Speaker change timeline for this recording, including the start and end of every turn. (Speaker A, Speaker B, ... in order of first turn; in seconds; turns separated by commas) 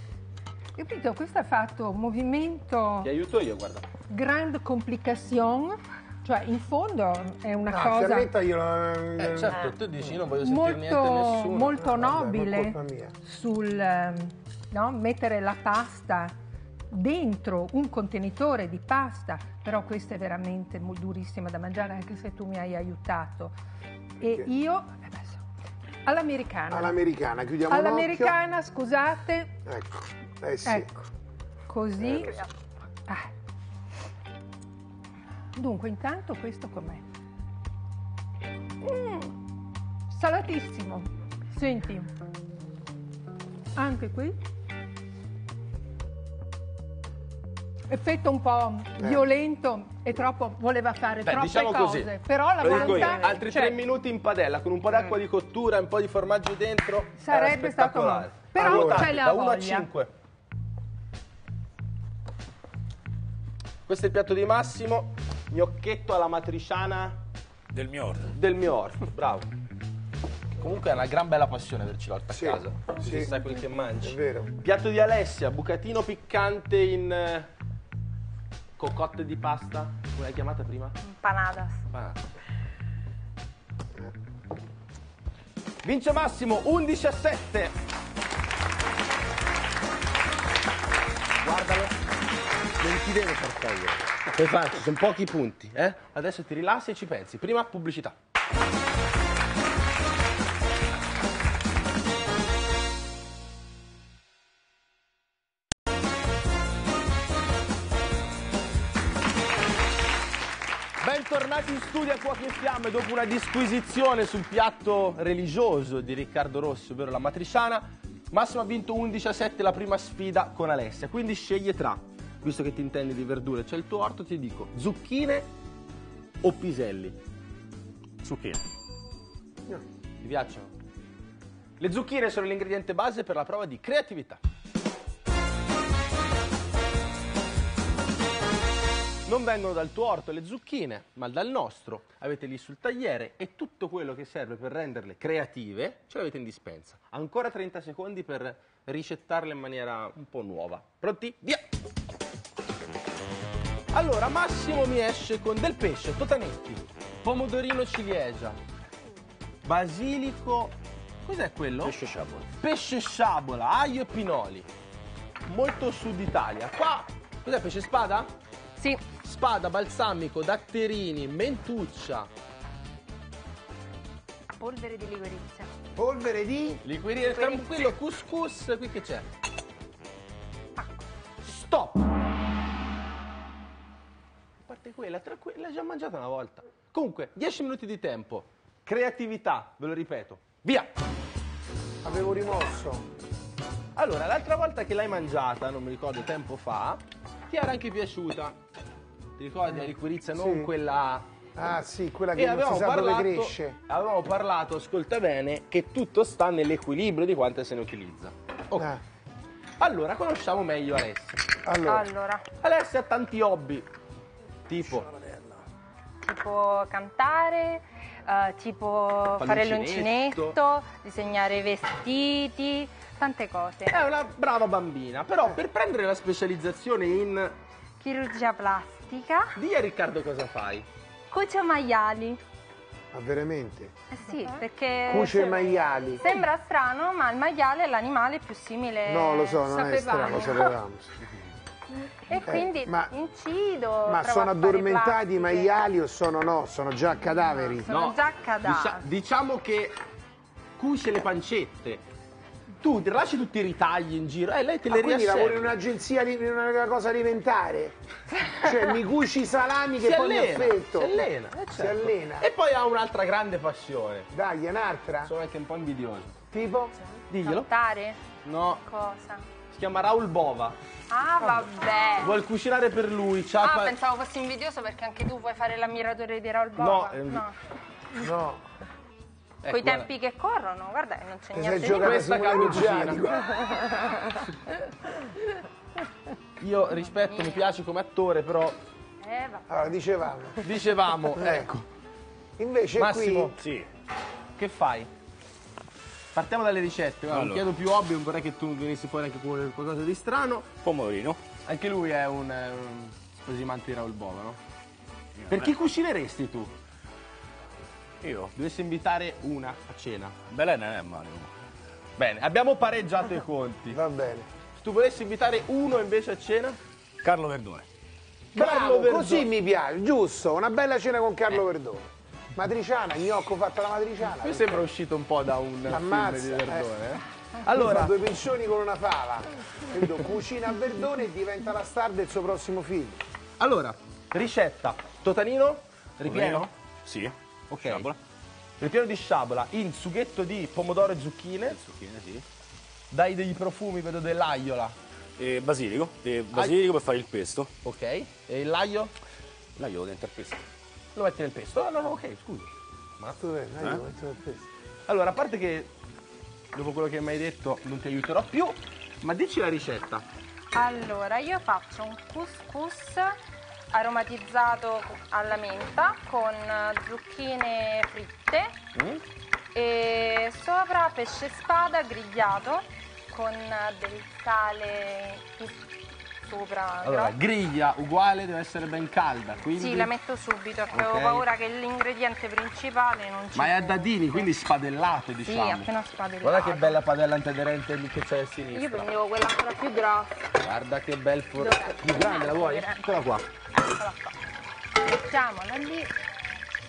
Speaker A: 0.7-3.1, Speaker B: 3.0-3.9, Speaker A: 4.1-8.3, Speaker C: 7.7-9.6, Speaker B: 9.2-11.8, Speaker A: 10.4-16.3, Speaker C: 11.7-13.1, Speaker A: 16.9-23.5, Speaker C: 24.2-24.5, Speaker A: 24.2-25.4, Speaker A: 26.0-26.9, Speaker C: 26.7-28.4, Speaker A: 27.7-29.6, Speaker C: 29.6-30.9, Speaker A: 30.6-31.1, Speaker A: 31.7-32.3, Speaker C: 32.0-32.3, Speaker A: 35.5-37.0, Speaker A: 38.8-39.3, Speaker A: 40.1-42.1, Speaker A: 43.7-44.4, Speaker A: 47.9-53.8, Speaker C: 49.0-49.3, Speaker B: 51.2-60.1, Speaker A: 57.2-59.9, Speaker C: 58.6-59.1, Speaker B: 63.9-67.2, Speaker D: 67.7-68.3, Speaker B: 68.3-69.5, Speaker B: 70.6-77.5, Speaker C: 72.3-73.3, Speaker C: 74.0-74.5, Speaker B: 78.8-81.0, Speaker E: 81.0-81.8, Speaker B: 81.9-82.2, Speaker B: 85.8-87.7, Speaker B: 91.4-92.0, Speaker B: 92.8-98.2, Speaker B: 111.0-125.5, Speaker B: 126.4-127.2, Speaker D: 128.2-128.6, Speaker B: 130.2-130.7, Speaker B: 131.8-134.4, Speaker B: 139.2-151.6, Speaker B: 153.9-158.6, Speaker B: 159.6-161.9, Speaker D: 161.8-162.5, Speaker B: 162.6-164.7, Speaker B: 165.5-168.3, Speaker E: 168.8-169.0, Speaker B: 169.2-172.3, Speaker E: 174.6-175.7, Speaker C: 175.9-176.8, Speaker B: 176.8-179.3, Speaker E: 177.2-177.7, Speaker E: 180.8-181.0, Speaker B: 181.4-182.1, Speaker B: 184.7-190.9, Speaker C: 192.0-193.1, Speaker B: 193.9-198.6, Speaker B: 199.4-201.3, Speaker C: 200.3-200.7, Speaker C: 201.5-203.8, Speaker B: 202.3-208.9, Speaker C: 208.8-209.0, Speaker B: 209.8-211.5, Speaker C: 211.6-212.1, Speaker E: 211.8-212.4, Speaker B: 212.6-213.9, Speaker B: 214.7-215.1, Speaker E: 216.2-224.0, Speaker B: 219.4-220.6, Speaker B: 223.9-227.6, Speaker E: 228.0-229.5, Speaker B: 229.5-230.9, Speaker E: 231.3-232.4, Speaker C: 233.1-233.9, Speaker E: 234.1-239.6, Speaker A: 234.3-234.6, Speaker C: 235.1-236.2, Speaker C: 239.1-241.1, Speaker A: 239.6-240.6, Speaker E: 240.3-240.7, Speaker E: 242.3-245.7, Speaker C: 242.4-243.1, Speaker C: 244.1-247.9, Speaker E: 247.5-249.1, Speaker B: 247.9-249.9, Speaker B: 250.8-252.0, Speaker B: 252.8-255.8, Speaker C: 254.9-258.0, Speaker C: 258.6-262.5, Speaker B: 260.0-264.3, Speaker C: 264.3-265.3, Speaker B: 265.2-266.4, Speaker C: 266.5-266.9, Speaker B: 267.3-267.7, Speaker E: 267.4-268.2, Speaker B: 268.4-268.8, Speaker E: 268.8-269.4, Speaker B: 269.7-270.8, Speaker E: 271.1-272.4, Speaker B: 272.2-273.9, Speaker E: 273.6-277.6, Speaker B: 276.8-277.4, Speaker C: 278.1-278.6, Speaker B: 279.6-280.1, Speaker E: 279.7-282.6, Speaker C: 281.5-283.8, Speaker B: 281.9-283.3, Speaker B: 286.6-288.8, Speaker E: 287.1-287.7, Speaker E: 289.2-289.9, Speaker C: 289.7-290.6, Speaker B: 290.6-291.8, Speaker C: 291.3-291.7, Speaker C: 292.6-293.5, Speaker B: 293.0-293.6, Speaker D: 293.6-293.9, Speaker B: 294.6-295.1, Speaker B: 296.3-300.7, Speaker D: 297.3-297.6, Speaker D: 300.8-301.4, Speaker B: 301.6-304.6, Speaker D: 305.4-305.7, Speaker B: 305.5-306.7, Speaker D: 308.2-308.5, Speaker B: 308.5-310.4, Speaker D: 310.5-311.5, Speaker B: 312.2-314.0, Speaker C: 313.9-314.5, Speaker B: 314.8-316.8, Speaker D: 317.2-317.9, Speaker B: 318.5-319.5, Speaker C: 318.5-324.8, Speaker B: 324.2-328.2, Speaker C: 325.9-326.9, Speaker C: 327.6-333.2, Speaker B: 333.6-336.7, Speaker D: 336.2-338.2, Speaker B: 337.7-338.1, Speaker B: 338.8-341.9, Speaker D: 341.8-342.4, Speaker B: 343.1-345.0, Speaker D: 345.4-347.7, Speaker B: 346.5-346.8, Speaker B: 347.8-349.1, Speaker D: 349.8-350.6, Speaker B: 351.1-353.4, Speaker C: 353.4-354.7, Speaker B: 355.1-355.9, Speaker B: 356.7-360.2, Speaker E: 360.7-363.4, Speaker E: 363.9-368.7, Speaker B: 368.9-369.2, Speaker E: 369.7-375.9, Speaker E: 376.4-377.4, Speaker B: 377.0-380.1, Speaker E: 379.7-384.5, Speaker B: 380.9-381.5, Speaker B: 383.5-385.9, Speaker E: 385.4-387.0, Speaker B: 386.4-389.1, Speaker E: 388.7-390.5, Speaker B: 390.6-393.4, Speaker E: 391.6-393.2, Speaker E: 393.8-394.3, Speaker E: 394.9-396.1